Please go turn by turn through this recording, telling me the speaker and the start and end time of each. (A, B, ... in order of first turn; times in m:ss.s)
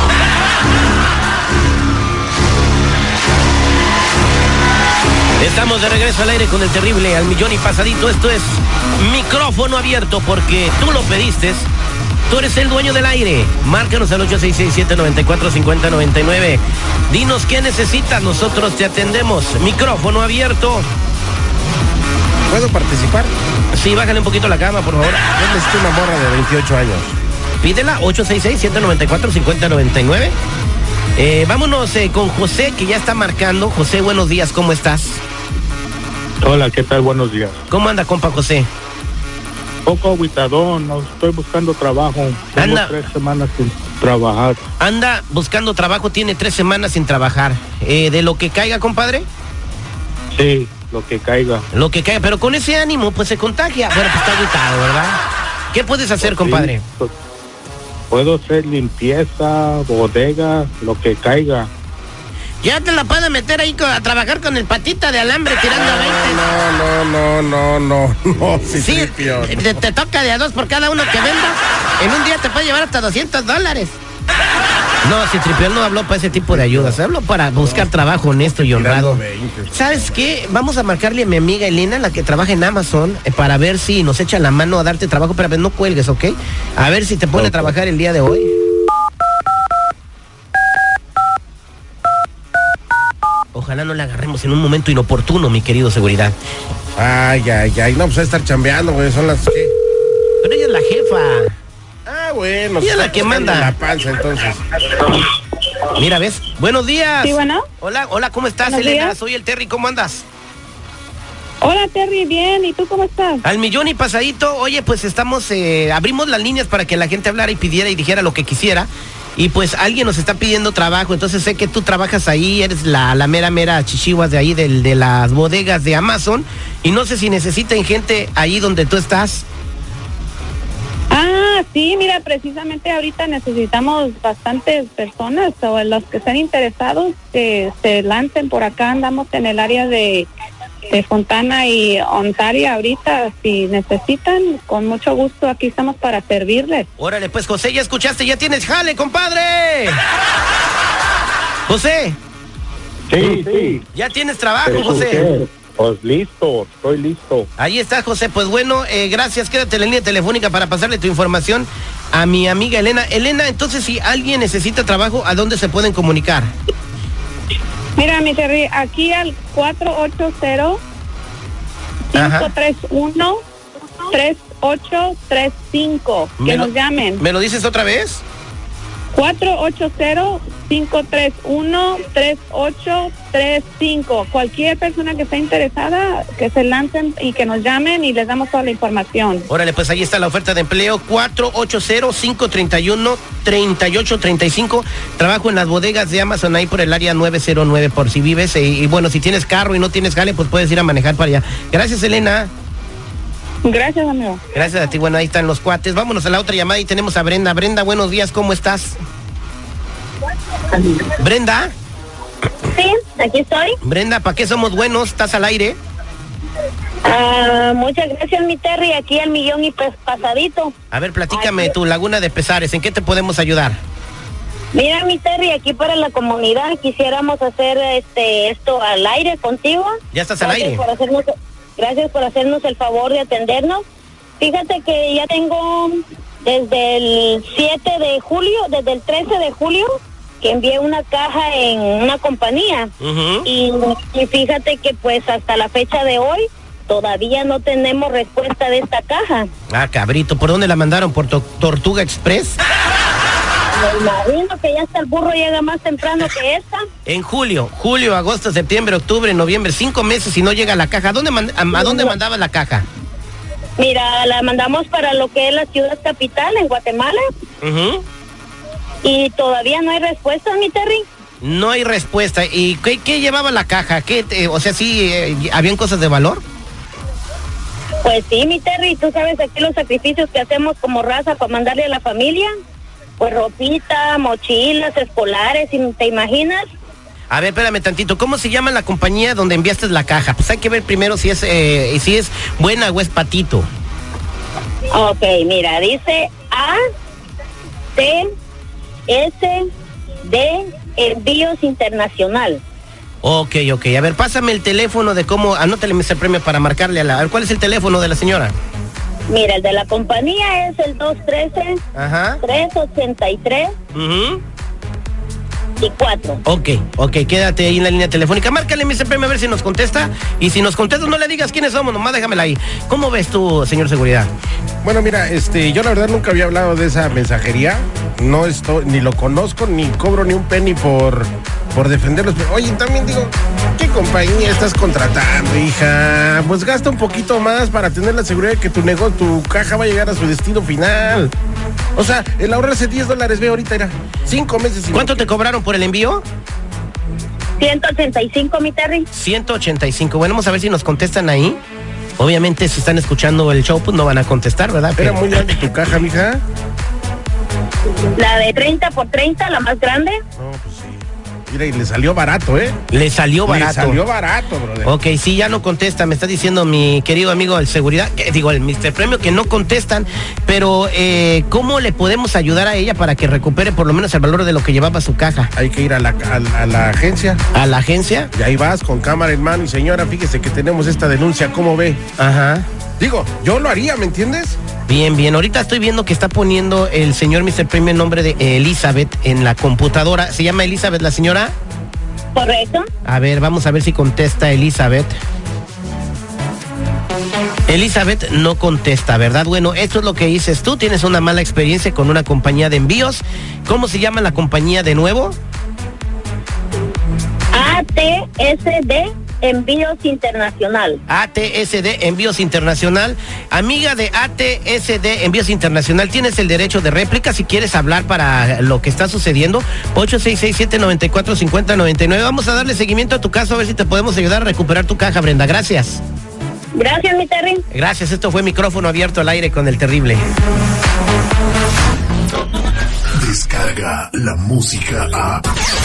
0:05.4-0:11.7 A
0:12.3-0:20.9 A
0:22.5-0:23.3 B
0:23.7-0:25.3 A
0:25.3-0:27.2 B
0:27.6-0:30.4 A
0:31.2-0:35.2 A
0:36.4-0:37.6 C
0:37.7-0:38.7 A
0:39.9-0:44.7 C
0:42.6-0:43.0 A
0:44.8-0:49.3 A
0:50.3-0:51.7 C
0:51.7-0:55.2 A
0:55.7-0:56.8 A
0:56.2-0:57.1 C
0:58.1-1:01.7 C
1:02.6-1:06.5 A
1:05.7-1:09.7 B
1:08.8-1:14.0 A
1:15.0-1:28.5 A
1:16.4-1:17.0 B
1:18.6-1:20.3 B
1:27.4-1:27.7 B
1:33.5-1:36.4 A
1:37.0-1:39.7 B
1:40.4-1:41.5 A
1:42.1-1:44.6 B
1:42.8-1:43.7 A
1:45.9-1:50.2 A
1:47.2-1:47.7 D
1:48.6-1:49.2 D
1:51.6-1:53.4 D
1:53.4-2:09.5 A
2:11.1-2:20.3 D
2:20.9-2:26.9 D
2:27.0-2:30.0 A
2:31.7-2:32.2 A
2:33.1-2:33.8 C
2:33.2-2:35.4 A
2:34.6-2:37.5 C
2:37.6-2:46.5 A
2:48.0-2:50.8 D
2:52.1-2:53.4 D
2:52.2-2:52.5 A
2:54.1-2:57.2 D
2:56.4-2:58.2 A
2:59.1-3:09.5 D
3:09.5-3:22.5 A
3:23.6-3:24.4 D
3:24.5-3:29.0 A
3:31.2-3:31.7 A
3:32.7-3:33.8 E
3:33.8-3:35.8 A
3:37.0-3:40.8 E
3:40.9-3:43.8 A
3:41.3-3:41.7 E
3:44.7-3:53.8 E
3:50.1-3:50.8 A
3:54.4-4:02.9 E
4:03.0-4:03.5 A
4:03.4-4:09.5 E
4:09.7-4:12.6 A
4:13.7-4:16.8 E
4:17.1-4:22.9 A
4:21.8-4:22.1 E
4:23.8-4:27.2 E
4:27.6-4:28.0 A
4:29.0-4:31.0 E
4:31.4-4:36.4 A
4:38.0-4:42.5 E
4:43.2-4:46.6 E
4:47.3-4:53.7 A
4:54.9-4:56.8 E
4:58.0-4:58.2 E
4:59.1-4:59.7 E
5:00.2-5:02.6 E
5:03.2-5:08.6 A
5:09.3-5:11.8 E
5:12.0-5:12.4 A
5:12.4-5:13.7 E
5:13.9-5:14.4 A
5:15.8-5:16.4 E
5:16.5-5:24.3 A
5:24.8-5:41.3 B
5:42.0-5:45.3 B
5:44.9-5:46.2 A
5:47.6-5:49.1 E
5:49.1-5:51.6 A
5:52.2-5:55.6 A
5:55.0-5:56.4 B
5:58.2-6:00.2 E
6:00.4-6:02.8 B
6:02.9-6:04.0 A
6:03.5-6:04.9 B
6:04.8-6:15.5 A
6:15.6-6:17.4 B
6:17.5-6:18.3 A
6:18.3-6:22.0 B
6:22.2-6:22.7 A
6:23.0-6:24.6 B
6:24.9-6:31.5 A
6:32.3-6:32.9 E
6:33.0-6:35.1 A
6:37.7-6:45.4 A
6:47.5-6:51.0 E
6:51.1-7:06.0 A
7:06.7-7:07.6 E
7:07.7-7:10.2 A
7:13.2-7:15.4 F